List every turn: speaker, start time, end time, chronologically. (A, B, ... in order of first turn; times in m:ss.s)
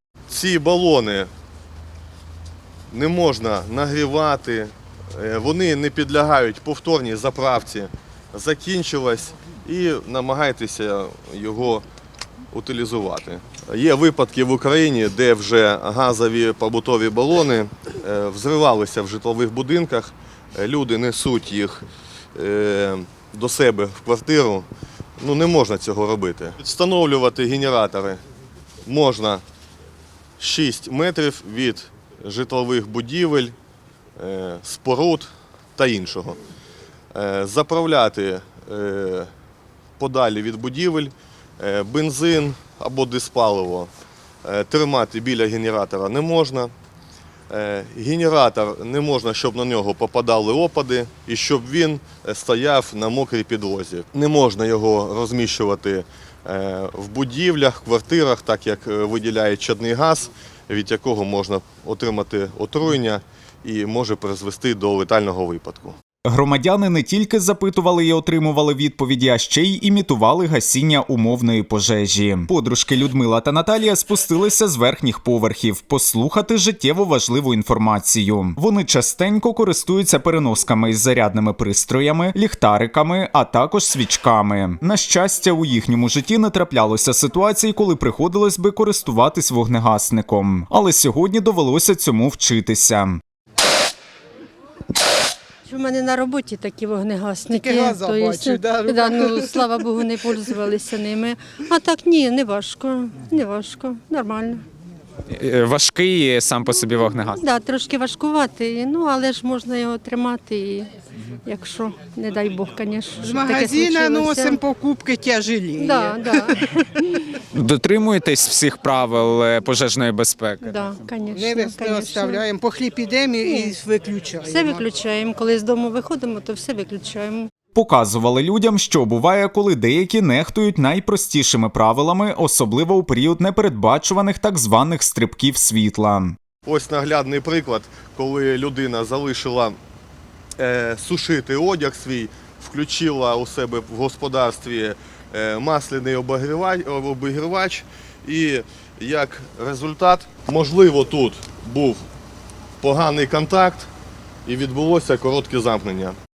0:00.3-0:01.3 A
0:02.9-0:11.8 A
0:12.5-0:24.7 A
0:25.2-0:28.2 A
0:28.8-0:29.4 A
0:30.4-0:33.6 A
0:34.2-0:36.4 A
0:37.1-0:39.3 A
0:40.0-0:43.9 A
0:44.4-0:46.7 A
0:47.5-1:06.0 A
1:06.3-1:33.2 B
1:35.6-1:44.6 C
1:37.5-1:39.5 D
1:45.3-1:47.4 E
1:47.3-1:50.9 C
1:51.4-1:54.6 C
1:53.2-1:56.6 D
1:55.8-1:57.2 C
1:57.5-2:00.9 E
2:00.6-2:02.4 C
2:01.3-2:04.8 D
2:03.4-2:03.8 C
2:04.4-2:07.5 C
2:07.8-2:16.4 B
2:16.6-2:19.8 A
2:20.6-2:32.0 A
2:32.8-2:33.9 A
2:34.5-2:36.2 A